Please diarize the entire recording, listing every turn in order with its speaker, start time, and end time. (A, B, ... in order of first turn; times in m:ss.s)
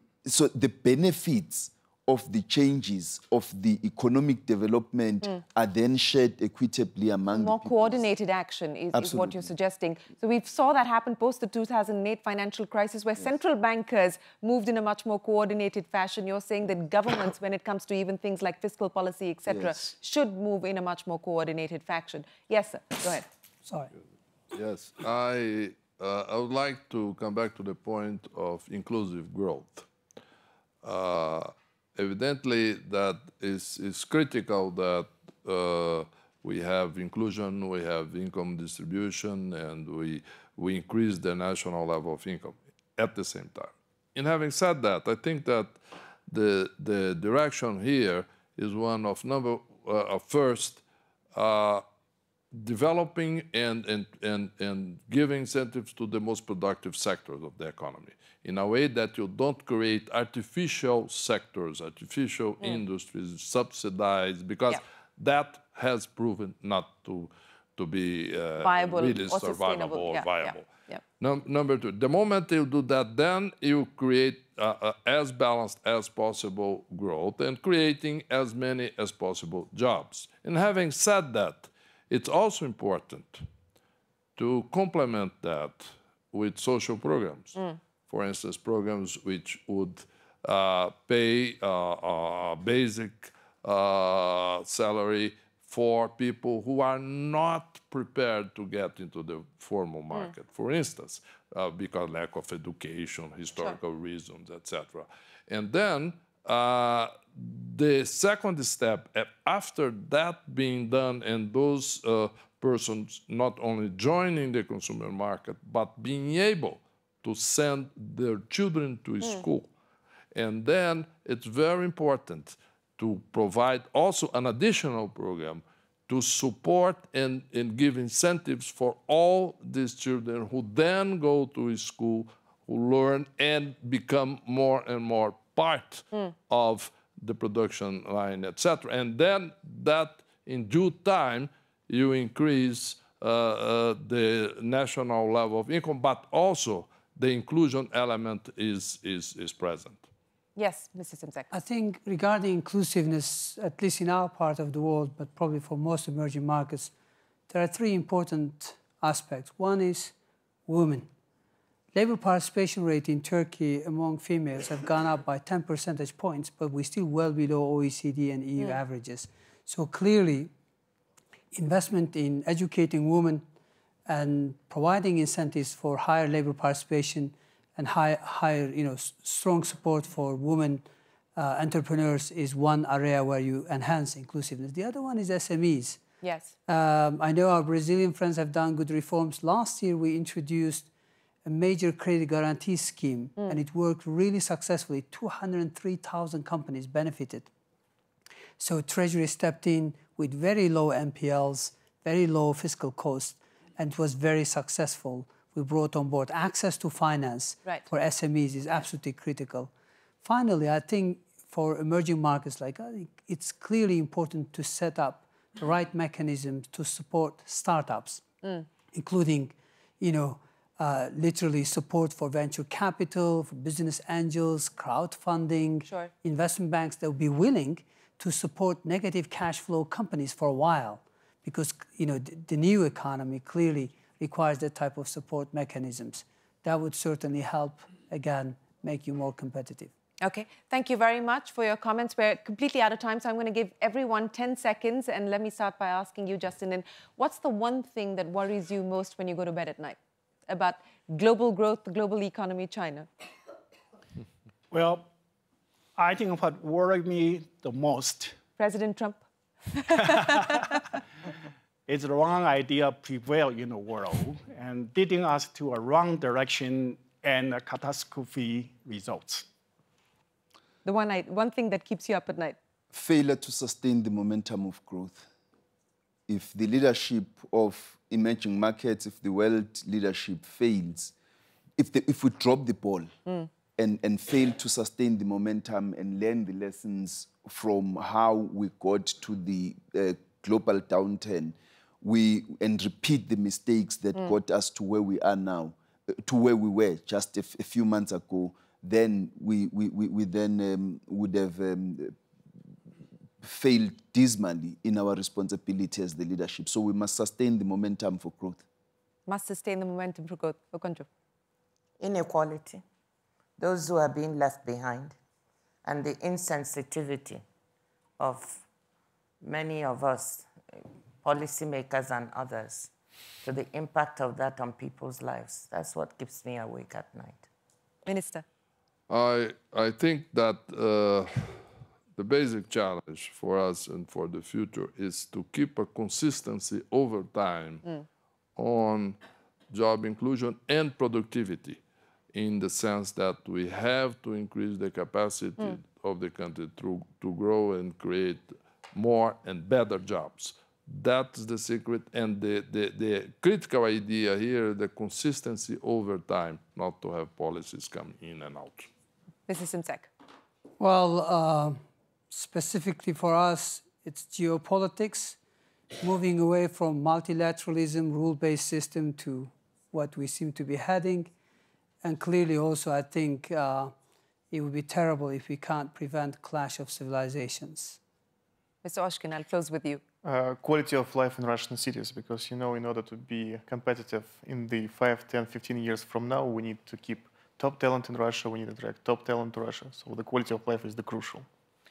0:00.2-0:08.0 A
0:07.4-0:23.3 B
0:08.9-0:09.5 A
0:19.5-0:19.9 A
0:23.7-0:23.9 C
0:24.5-0:29.9 D
0:30.8-0:50.8 D
0:51.4-0:51.8 D
0:52.5-1:10.7 D
1:08.6-1:11.0 B
1:11.2-1:23.4 D
1:24.4-1:59.7 D
2:00.3-2:30.0 D
2:30.6-2:31.5 B
2:31.5-2:36.9 C
2:37.5-2:40.1 C
2:40.7-2:41.1 C
2:41.9-2:50.5 C
2:51.5-2:53.4 C
2:54.1-3:00.8 C
3:01.4-3:06.0 C
3:06.2-3:06.6 B
3:06.7-3:10.9 C
3:11.4-3:17.5 C
3:18.6-3:29.7 C
3:30.2-3:38.2 C
3:38.9-3:59.9 C
3:45.9-3:46.1 B
4:00.2-4:10.0 B
4:10.5-4:13.1 B
4:14.7-4:15.1 E
4:16.0-4:18.4 E
4:18.6-4:20.8 B
4:20.2-4:20.6 E
4:21.9-4:29.5 E
4:30.8-4:32.6 B
4:32.9-4:35.3 A
4:36.3-4:41.1 A
4:41.8-4:43.1 A
4:43.8-5:02.2 A
5:03.4-5:08.6 A
5:09.3-5:11.1 B
5:12.0-5:12.8 F
5:13.6-5:15.2 F
5:15.8-5:17.4 F
5:18.2-5:18.6 F
5:19.4-5:20.5 F
5:21.2-5:22.9 F
5:23.4-5:27.4 F
5:28.0-5:28.4 B
5:29.1-5:31.6 D
5:32.2-5:37.8 D
5:38.6-5:39.2 D
5:39.7-5:41.8 D
5:42.3-5:58.9 D
5:59.5-6:00.1 B
6:00.8-6:01.8 C
6:02.3-6:05.4 C
6:06.0-6:11.3 C
6:12.0-6:13.9 C
6:14.5-6:18.0 C
6:18.8-6:20.0 B
6:20.2-6:31.5 G